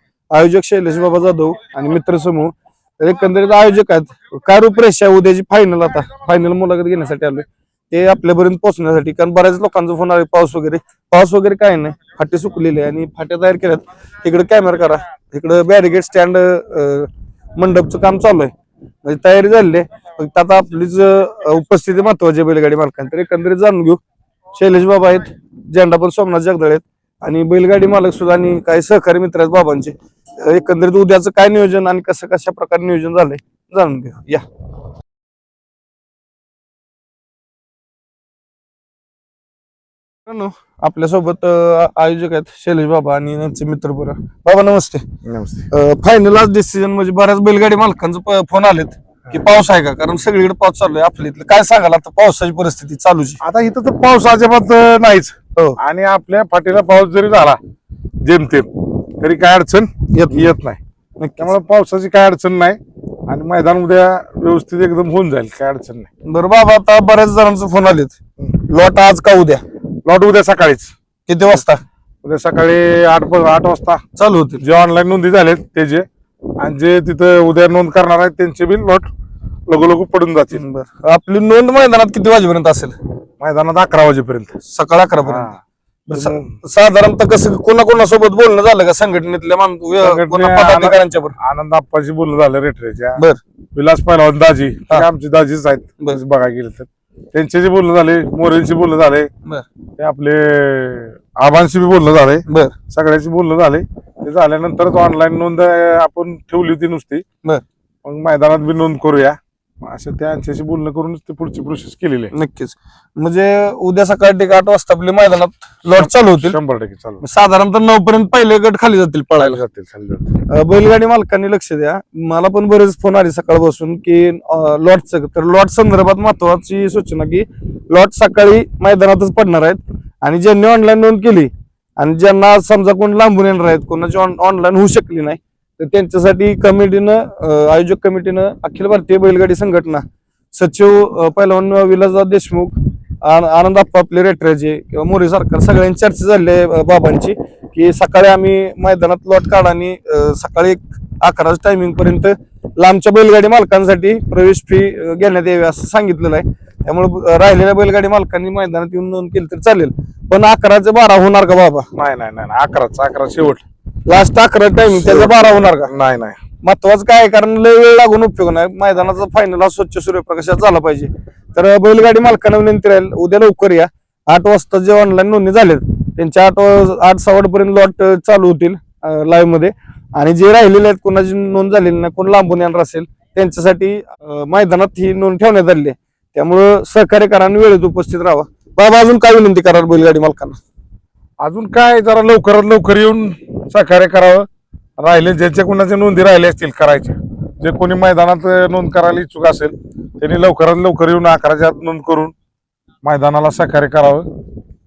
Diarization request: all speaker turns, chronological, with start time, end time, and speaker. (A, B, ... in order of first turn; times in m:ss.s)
0:00.3-0:18.5 A
0:19.0-0:24.0 A
0:24.5-0:34.4 A
0:40.3-0:45.0 A
0:45.2-0:45.7 B
0:45.7-0:53.4 A
0:53.4-0:57.6 B
0:58.2-1:00.8 B
1:00.1-1:00.5 A
1:01.2-1:01.5 A
1:01.4-1:06.1 B
1:06.3-1:09.6 A
1:10.1-1:10.9 B
1:11.3-1:11.8 A
1:12.2-1:14.0 B
1:14.2-1:14.6 A
1:14.6-1:16.0 B
1:16.6-1:19.1 B
1:19.7-1:20.6 B
1:20.5-1:23.0 A
1:23.4-1:24.6 B
1:24.7-1:25.5 A
1:25.2-1:26.5 B
1:26.1-1:31.4 A
1:30.0-1:33.2 B
1:33.8-1:39.3 B
1:40.0-1:47.2 B
1:42.5-1:42.8 A
1:48.0-1:52.3 B
1:52.3-1:56.6 A
1:55.9-1:57.2 B
1:57.2-1:59.6 A
1:59.4-2:00.4 B
2:00.5-2:41.9 A
2:42.0-2:43.6 B
2:44.1-2:45.9 A
2:44.9-2:46.4 B
2:46.6-3:10.6 A
3:11.4-3:14.5 B
3:15.0-3:22.3 B
3:23.0-3:24.3 B